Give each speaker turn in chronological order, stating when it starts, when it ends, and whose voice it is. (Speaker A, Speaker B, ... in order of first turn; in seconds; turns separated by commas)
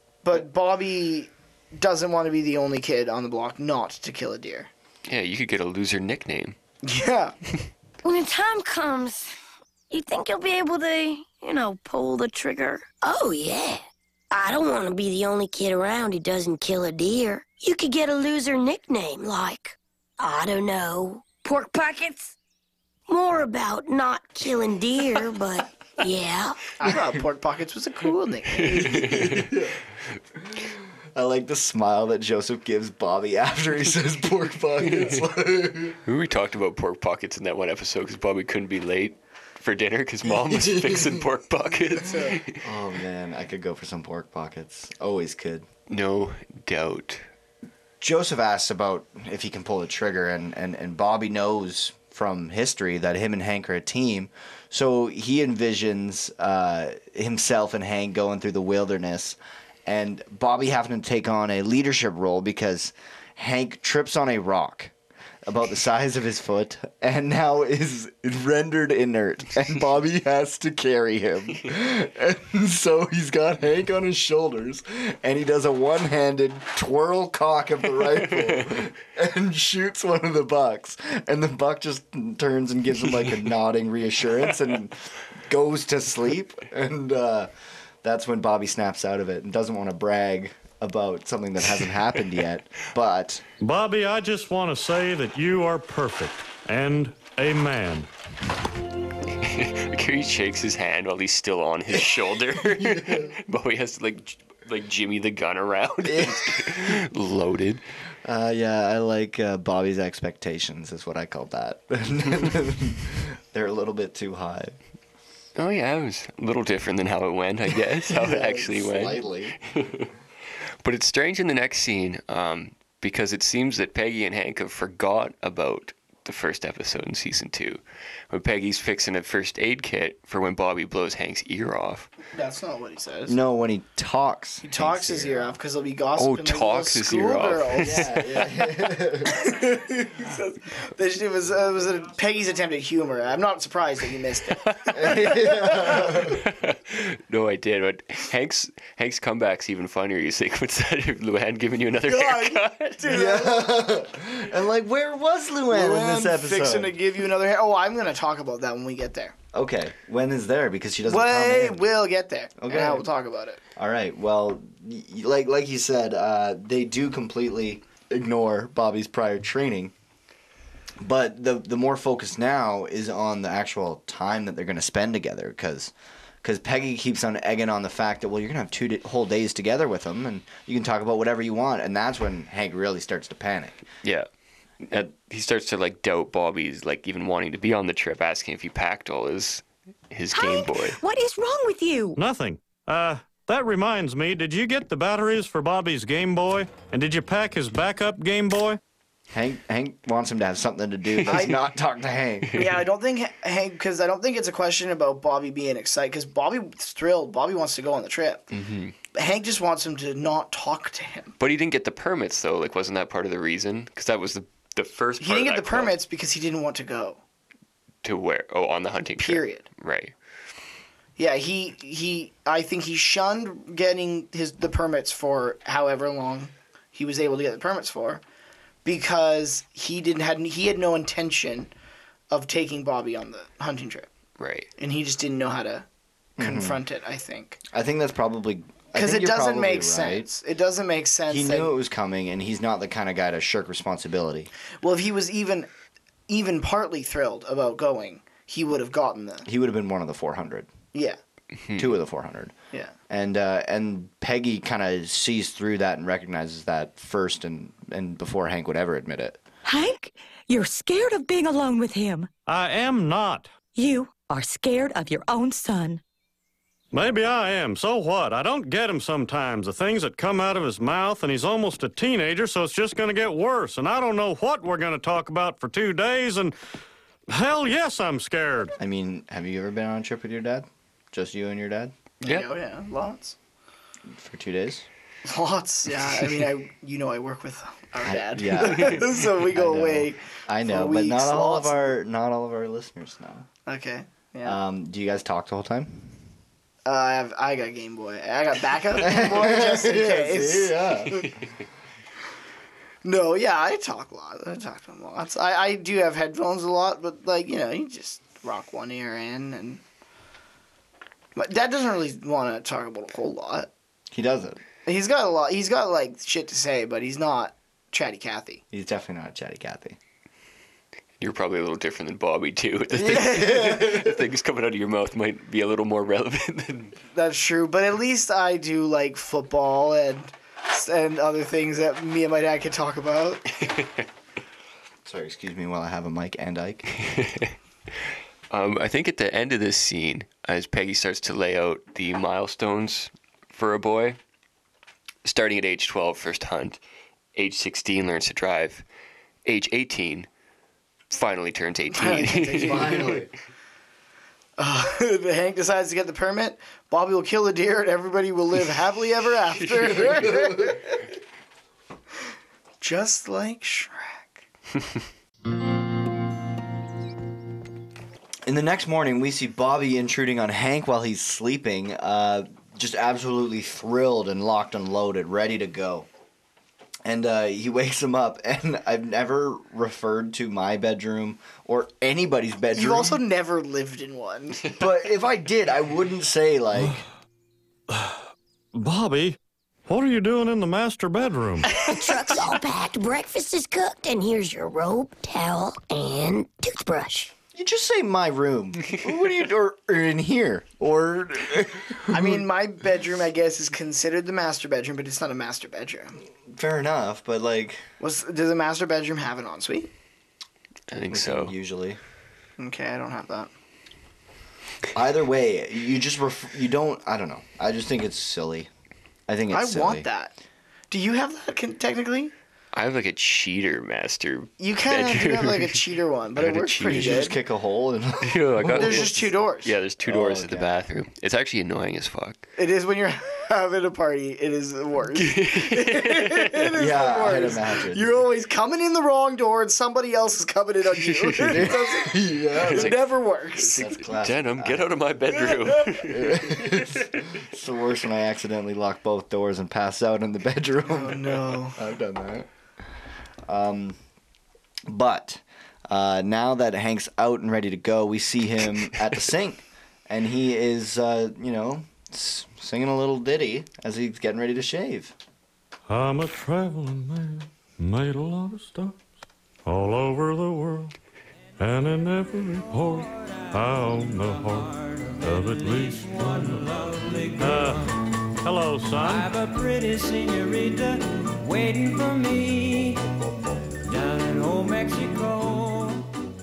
Speaker A: 0.2-4.7, Speaker B: 5.1-6.5, Speaker A: 6.8-7.3, Speaker C: 8.0-9.3, Speaker C: 9.9-22.4, Speaker C: 23.1-26.7, Speaker A: 26.8-29.2, Speaker B: 28.6-29.6, Speaker D: 29.1-29.8, Speaker D: 31.1-36.0, Speaker B: 34.8-35.2, Speaker B: 36.0-42.6, Speaker D: 40.4-41.2, Speaker A: 41.9-42.4, Speaker D: 42.6-45.6, Speaker B: 45.9-47.2, Speaker D: 48.0-64.9, Speaker D: 65.4-87.5, Speaker D: 88.0-93.4, Speaker E: 93.6-98.1, Speaker B: 99.4-107.8, Speaker D: 103.0-103.2, Speaker D: 106.0-107.0, Speaker D: 108.2-114.8, Speaker B: 115.5-120.1, Speaker D: 118.0-119.6, Speaker B: 120.8-127.8, Speaker B: 128.3-132.1, Speaker A: 132.3-133.4, Speaker D: 133.3-135.5, Speaker A: 134.6-138.1, Speaker B: 136.2-138.2, Speaker D: 137.8-139.4, Speaker A: 139.2-146.2, Speaker B: 144.7-144.9, Speaker D: 144.9-146.4, Speaker B: 146.2-153.0, Speaker A: 152.1-153.6, Speaker D: 153.1-156.9, Speaker A: 155.7-159.3, Speaker D: 159.5-161.8, Speaker A: 161.1-163.6, Speaker D: 162.6-163.1, Speaker D: 163.8-169.9, Speaker D: 171.0-183.8, Speaker B: 184.8-191.0, Speaker F: 190.3-192.2, Speaker E: 192.2-198.8, Speaker D: 199.3-202.5, Speaker A: 201.3-201.6, Speaker A: 202.5-208.5, Speaker B: 208.5-208.9, Speaker A: 209.1-211.3, Speaker B: 211.4-215.9, Speaker A: 215.2-217.2, Speaker B: 218.0-220.1, Speaker A: 219.2-219.6, Speaker A: 221.2-228.2, Speaker A: 228.8-231.7, Speaker A: 232.3-234.1, Speaker B: 234.4-234.7, Speaker A: 234.8-235.8, Speaker D: 236.4-236.8, Speaker A: 236.4-237.6, Speaker D: 237.7-240.3, Speaker A: 238.9-241.7, Speaker D: 241.3-244.5, Speaker A: 244.8-245.7, Speaker A: 246.3-249.5, Speaker D: 249.4-250.7, Speaker D: 251.8-252.5, Speaker D: 253.1-259.4, Speaker F: 259.6-262.3, Speaker E: 262.5-263.6, Speaker F: 263.7-266.0, Speaker E: 266.9-276.5, Speaker E: 277.3-278.7, Speaker D: 278.8-281.9, Speaker A: 282.2-283.4, Speaker D: 284.1-284.9, Speaker A: 285.2-291.9, Speaker D: 288.0-293.4, Speaker A: 293.6-294.6, Speaker D: 294.4-296.1, Speaker A: 296.8-301.3, Speaker D: 298.9-301.3, Speaker A: 303.0-309.8, Speaker A: 311.4-313.7, Speaker D: 314.1-314.6, Speaker A: 314.9-318.6, Speaker D: 318.7-320.0, Speaker B: 321.2-326.9, Speaker D: 322.9-324.1, Speaker A: 323.1-323.9, Speaker A: 327.1-333.4, Speaker D: 335.0-336.9, Speaker B: 337.0-337.5, Speaker B: 338.5-344.2, Speaker B: 345.2-346.8, Speaker B: 347.3-348.8, Speaker B: 349.4-350.3, Speaker B: 351.1-353.2, Speaker A: 351.9-353.1, Speaker D: 352.4-353.3, Speaker A: 354.6-360.8, Speaker A: 362.8-364.4, Speaker D: 368.4-376.1, Speaker D: 377.0-383.2, Speaker A: 382.7-384.8, Speaker D: 384.7-387.0, Speaker E: 387.9-388.2, Speaker E: 388.8-391.8, Speaker C: 391.7-397.3, Speaker D: 397.5-402.4, Speaker A: 402.1-406.2, Speaker D: 406.5-407.8, Speaker A: 408.0-409.9, Speaker B: 410.9-411.5, Speaker D: 411.1-412.0, Speaker A: 412.6-413.5, Speaker D: 414.9-418.7, Speaker D: 419.3-420.1, Speaker A: 419.5-420.4, Speaker A: 420.9-422.3, Speaker B: 422.7-425.8, Speaker A: 424.6-427.4, Speaker B: 426.4-427.2, Speaker D: 426.4-429.3, Speaker B: 428.2-432.4, Speaker A: 428.8-429.7, Speaker D: 430.0-430.7, Speaker A: 432.6-443.9, Speaker B: 435.1-436.7, Speaker D: 436.7-438.2, Speaker B: 441.0-441.8, Speaker D: 441.4-443.0, Speaker B: 442.5-447.0, Speaker D: 443.7-444.9, Speaker A: 445.5-445.9, Speaker D: 446.0-452.5, Speaker A: 450.9-451.8, Speaker D: 453.5-454.0, Speaker D: 454.9-465.1, Speaker E: 465.9-469.0, Speaker E: 469.6-470.9, Speaker E: 471.6-474.7, Speaker G: 472.9-478.0, Speaker E: 475.2-476.6, Speaker E: 477.4-477.9, Speaker E: 478.4-479.3, Speaker G: 478.9-483.1, Speaker G: 483.9-486.1